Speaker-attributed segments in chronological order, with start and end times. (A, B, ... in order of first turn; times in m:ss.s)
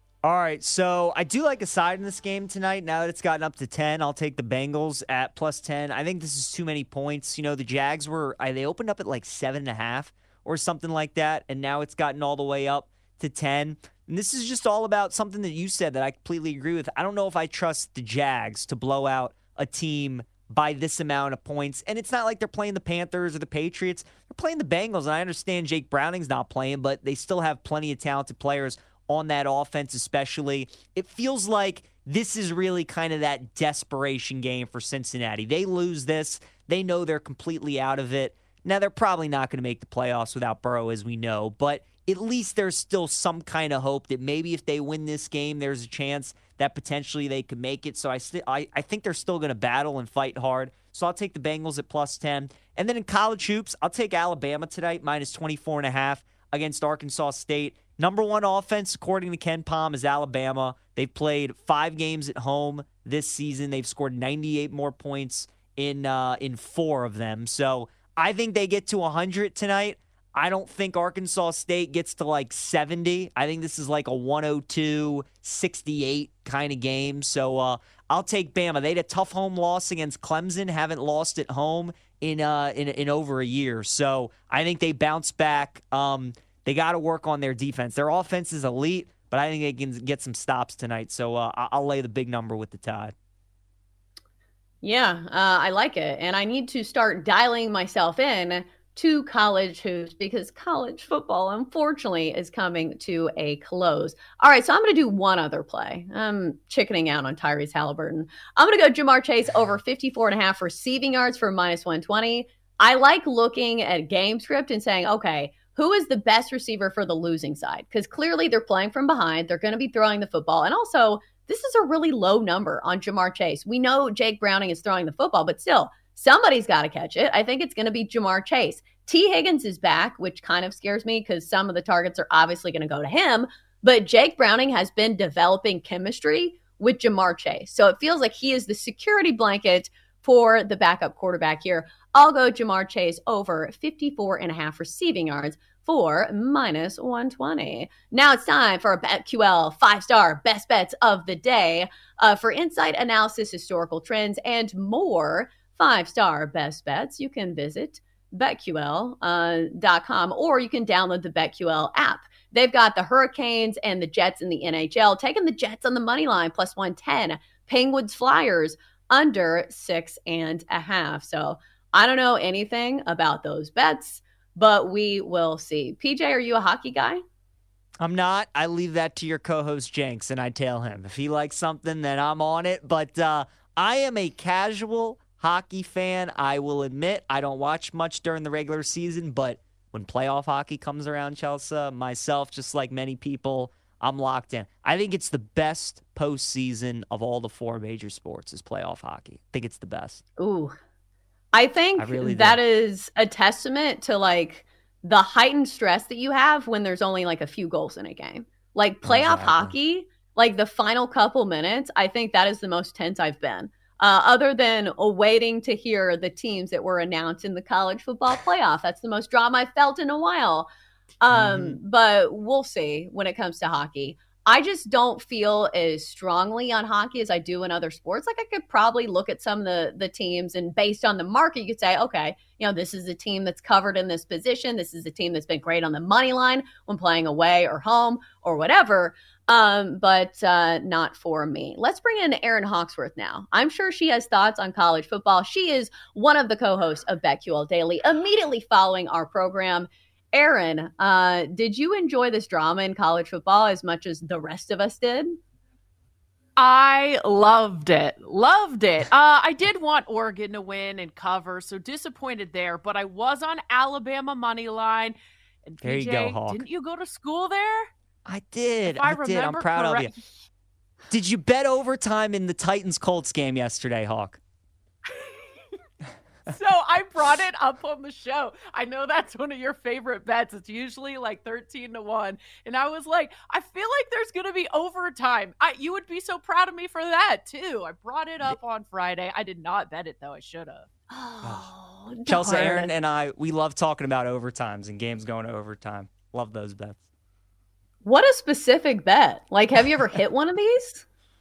0:00.2-1:33.1 A
1:34.8-2:57.2 B
2:58.0-3:20.2 A
3:20.4-3:20.7 B
3:21.5-3:40.7 B
3:22.0-3:22.6 A
3:29.0-3:29.7 A
3:41.2-4:15.3 B
3:41.3-3:41.8 A
4:16.6-4:25.2 C
4:25.7-4:27.9 C
4:25.8-4:26.6 A
4:28.2-4:30.1 A
4:28.9-4:30.3 C
4:31.1-4:34.4 A
4:36.4-4:50.9 C
4:51.1-4:52.9 B
4:51.4-4:51.7 A
4:52.3-4:57.0 A
4:58.0-5:01.0 B